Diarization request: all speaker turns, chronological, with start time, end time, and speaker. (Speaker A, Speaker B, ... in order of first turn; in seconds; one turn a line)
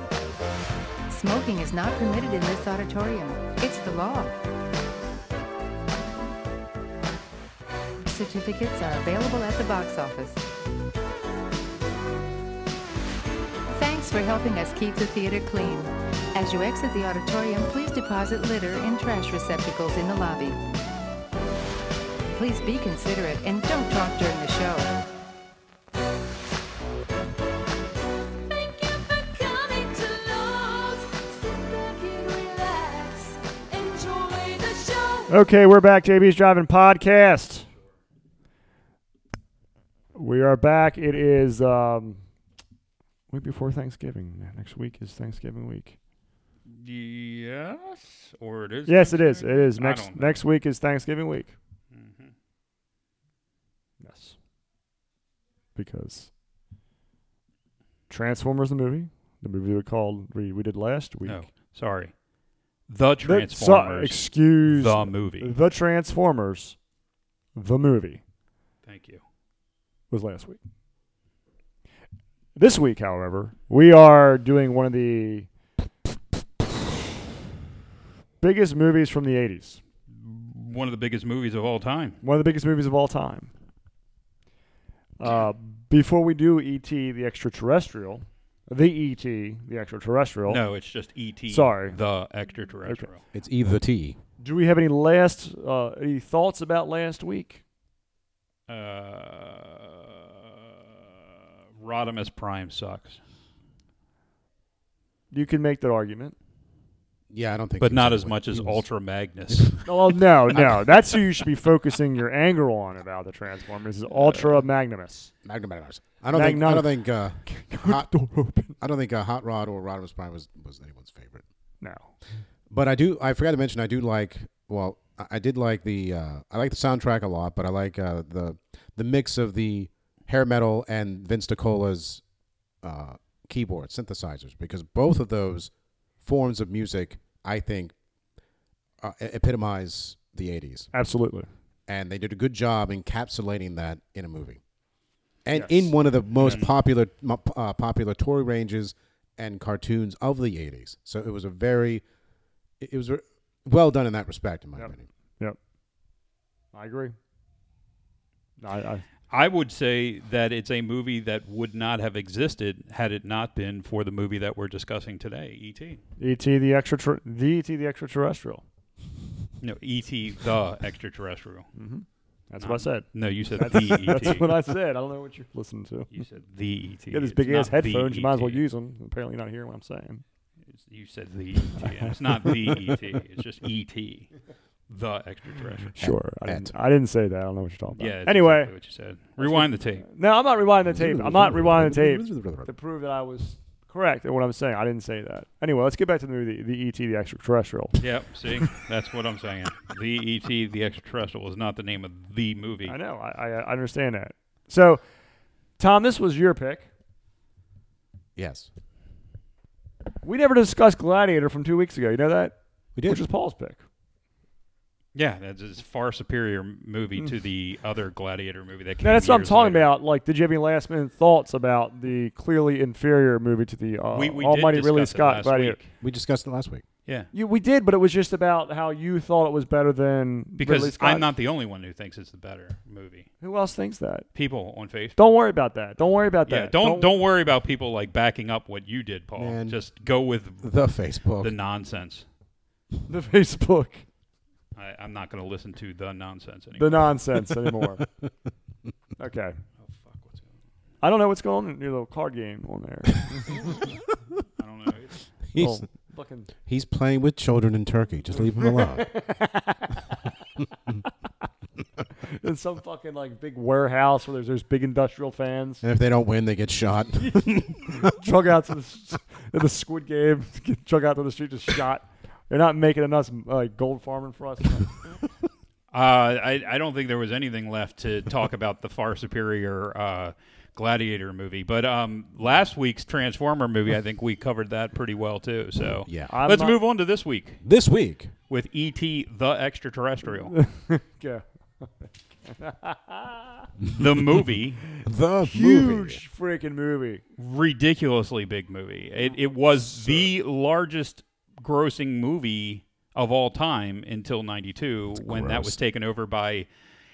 Speaker A: 1.1-4.4
Speaker A: 8.0-10.4
Speaker A: 13.7-20.6
Speaker A: 22.3-24.9
Speaker B: 28.5-35.3
Speaker A: 28.9-30.8
Speaker A: 31.7-32.9
Speaker A: 34.2-34.6
Speaker C: 35.3-37.7
Speaker C: 40.1-42.2
Speaker C: 43.3-46.0
Speaker D: 46.7-50.4
Speaker C: 48.9-51.5
Speaker D: 51.9-52.3
Speaker C: 54.0-54.4
Speaker C: 55.8-56.3
Speaker C: 58.1-61.5
Speaker D: 61.2-62.1
Speaker D: 62.9-65.5
Speaker C: 63.2-66.8
Speaker C: 67.5-68.2
Speaker D: 68.9-69.2
Speaker C: 70.1-70.6
Speaker C: 72.6-75.5
Speaker C: 78.4-79.8
Speaker D: 80.2-82.2
Speaker C: 82.2-83.5
Speaker C: 85.2-90.6
Speaker D: 90.5-93.2
Speaker C: 91.5-92.0
Speaker E: 93.3-94.2
Speaker C: 94.4-97.6
Speaker D: 98.7-100.5
Speaker D: 101.8-103.2
Speaker C: 105.3-106.3
Speaker E: 107.3-108.8
Speaker D: 107.8-109.9
Speaker C: 109.8-115.3
Speaker E: 110.5-110.9
Speaker E: 115.4-118.1
Speaker C: 116.3-118.8
Speaker E: 118.8-121.4
Speaker C: 121.8-122.1
Speaker E: 122.7-132.2
Speaker E: 132.8-135.7
Speaker E: 136.2-137.9
Speaker E: 139.0-140.9
Speaker C: 140.9-141.5
Speaker E: 141.9-144.6
Speaker E: 145.4-152.0
Speaker C: 145.5-145.9
Speaker D: 146.4-146.7
Speaker E: 152.8-155.1
Speaker C: 154.8-155.6
Speaker C: 156.7-157.2
Speaker C: 158.6-159.1
Speaker D: 159.3-166.0
Speaker C: 166.2-168.6
Speaker D: 169.6-171.7
Speaker C: 171.8-176.1
Speaker D: 172.6-174.5
Speaker D: 176.1-178.6
Speaker C: 177.1-180.2
Speaker D: 180.7-184.3
Speaker C: 181.8-182.8
Speaker D: 184.9-185.9
Speaker C: 185.9-188.7
Speaker E: 186.0-186.7
Speaker D: 187.9-190.1
Speaker C: 189.4-198.0
Speaker E: 190.9-192.7
Speaker D: 198.0-203.0
Speaker C: 202.8-205.0
Speaker C: 205.8-206.9
Speaker E: 208.4-208.7
Speaker C: 210.2-213.8
Speaker E: 213.0-213.2
Speaker D: 215.2-219.9
Speaker C: 219.0-225.8
Speaker D: 224.1-225.9
Speaker E: 226.0-226.8
Speaker C: 227.3-231.2
Speaker D: 230.6-233.3
Speaker C: 233.4-234.3
Speaker D: 234.3-235.2
Speaker C: 235.2-237.1
Speaker D: 236.5-240.8
Speaker E: 239.4-239.8
Speaker E: 240.6-241.5
Speaker D: 241.4-242.2
Speaker C: 243.1-244.0
Speaker D: 244.8-247.1
Speaker C: 246.8-248.1
Speaker C: 249.2-249.6
Speaker D: 249.8-250.5
Speaker C: 251.0-253.9
Speaker D: 254.6-255.2
Speaker E: 255.5-255.9
Speaker C: 255.6-256.5
Speaker E: 256.7-259.1
Speaker C: 258.6-260.3
Speaker C: 262.2-265.8
Speaker E: 265.8-268.1
Speaker C: 267.2-275.0
Speaker D: 275.9-287.6
Speaker E: 286.1-286.3
Speaker C: 286.3-286.8
Speaker E: 287.6-288.3
Speaker D: 288.5-290.6
Speaker C: 290.5-293.7
Speaker D: 293.9-294.8
Speaker E: 295.0-296.2
Speaker C: 295.4-297.2
Speaker D: 297.4-306.7
Speaker C: 299.7-300.3
Speaker E: 305.1-305.8